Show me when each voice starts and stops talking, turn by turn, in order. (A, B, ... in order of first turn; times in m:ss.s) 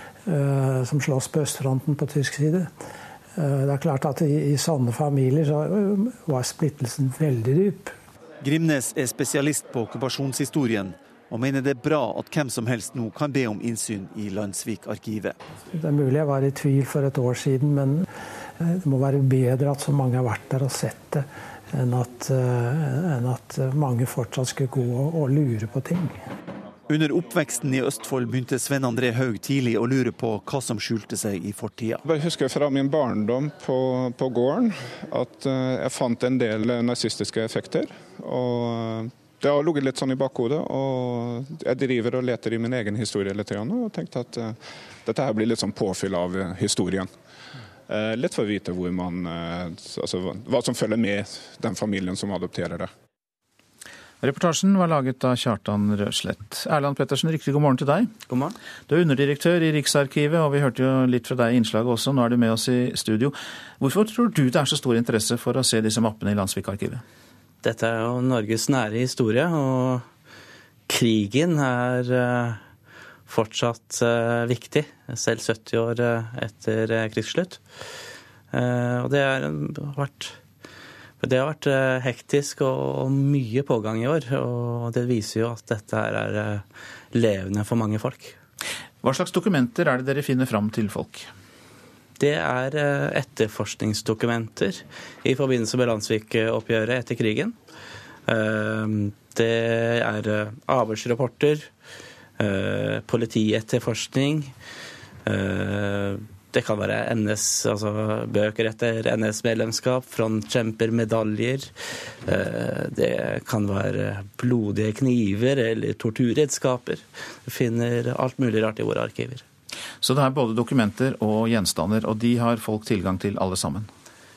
0:00.3-0:02.7 A
0:03.4-0:08.0 A
0:08.4-0:15.4 B
0:15.7-0:18.0 A
0:18.6-0:26.2 A
0:26.9-0:32.0 B
0:32.0-0:47.1 C
0:47.9-0:52.9 C
0:54.2-0:58.1 D
0:58.3-0:58.5 E
0:58.9-1:07.0 D
1:07.6-1:10.0 E
1:10.9-1:12.6 E
1:13.3-1:17.6 E
1:18.5-1:20.4 E
1:21.2-1:28.4 E
1:29.0-1:31.3 D
1:32.2-1:37.6 E
1:38.3-1:41.7 E
1:42.4-1:44.5 E
1:45.2-1:51.7 E
1:52.2-1:59.4 E
2:00.0-2:03.9 D